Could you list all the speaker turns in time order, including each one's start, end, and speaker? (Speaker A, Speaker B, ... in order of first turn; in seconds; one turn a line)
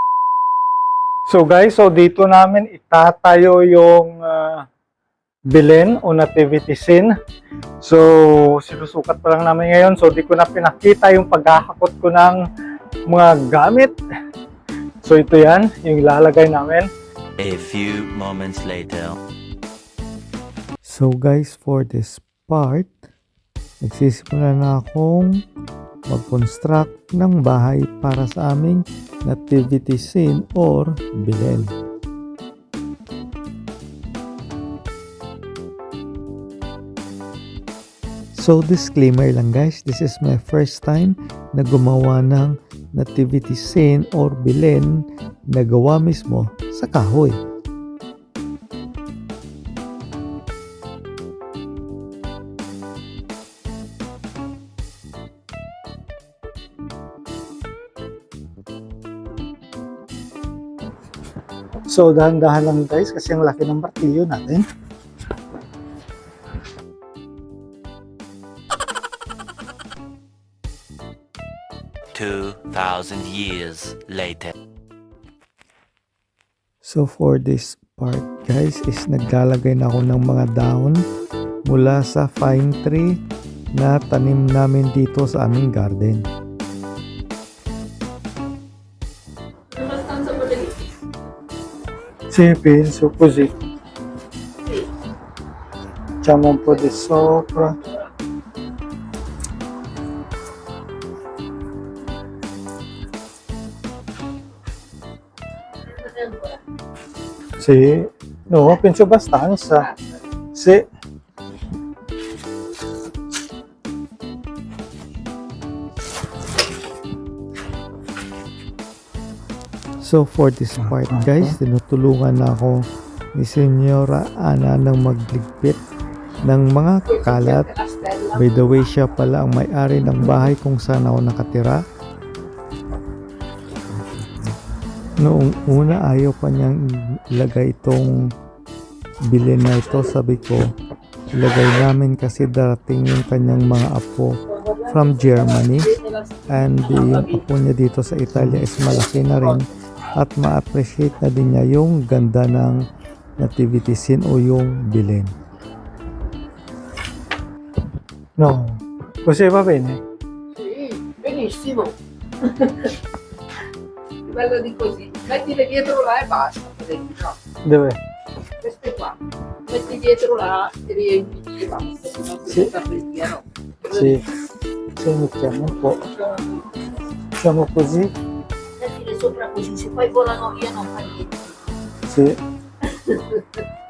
Speaker A: 1.3-4.7
Speaker A: 5.5-7.1
Speaker A: 7.8-12.4
Speaker A: 13.1-14.0
Speaker A: 15.0-16.9
Speaker B: 17.4-19.2
Speaker C: 20.8-22.9
Speaker C: 23.8-25.4
Speaker C: 26.1-31.8
Speaker C: 38.3-47.4
Speaker A: 61.9-64.6
Speaker B: 72.1-74.5
Speaker C: 76.8-81.0
Speaker C: 81.7-83.2
Speaker C: 83.8-86.3
Speaker D: 89.7-90.8
Speaker A: 92.3-93.5
Speaker A: 96.2-97.8
Speaker D: 96.6-98.0
Speaker D: 105.9-106.6
Speaker A: 107.6-109.9
Speaker D: 109.8-110.1
Speaker A: 110.5-110.8
Speaker C: 120.0-122.8
Speaker A: 120.8-121.6
Speaker C: 123.3-125.8
Speaker C: 126.4-127.7
Speaker D: 127.0-128.8
Speaker C: 128.3-131.8
Speaker C: 135.2-138.2
Speaker C: 139.3-140.7
Speaker C: 141.3-145.9
Speaker D: 144.5-147.4
Speaker C: 146.5-152.8
Speaker D: 148.8-149.6
Speaker C: 153.4-155.3
Speaker A: 158.4-160.0
Speaker D: 160.5-162.9
Speaker D: 164.2-167.3
Speaker A: 167.6-168.0
Speaker D: 168.6-174.2
Speaker A: 173.9-174.2
Speaker A: 175.0-176.0
Speaker D: 175.8-176.7
Speaker A: 177.4-178.1
Speaker D: 178.8-181.5
Speaker A: 182.1-182.4
Speaker D: 182.8-183.6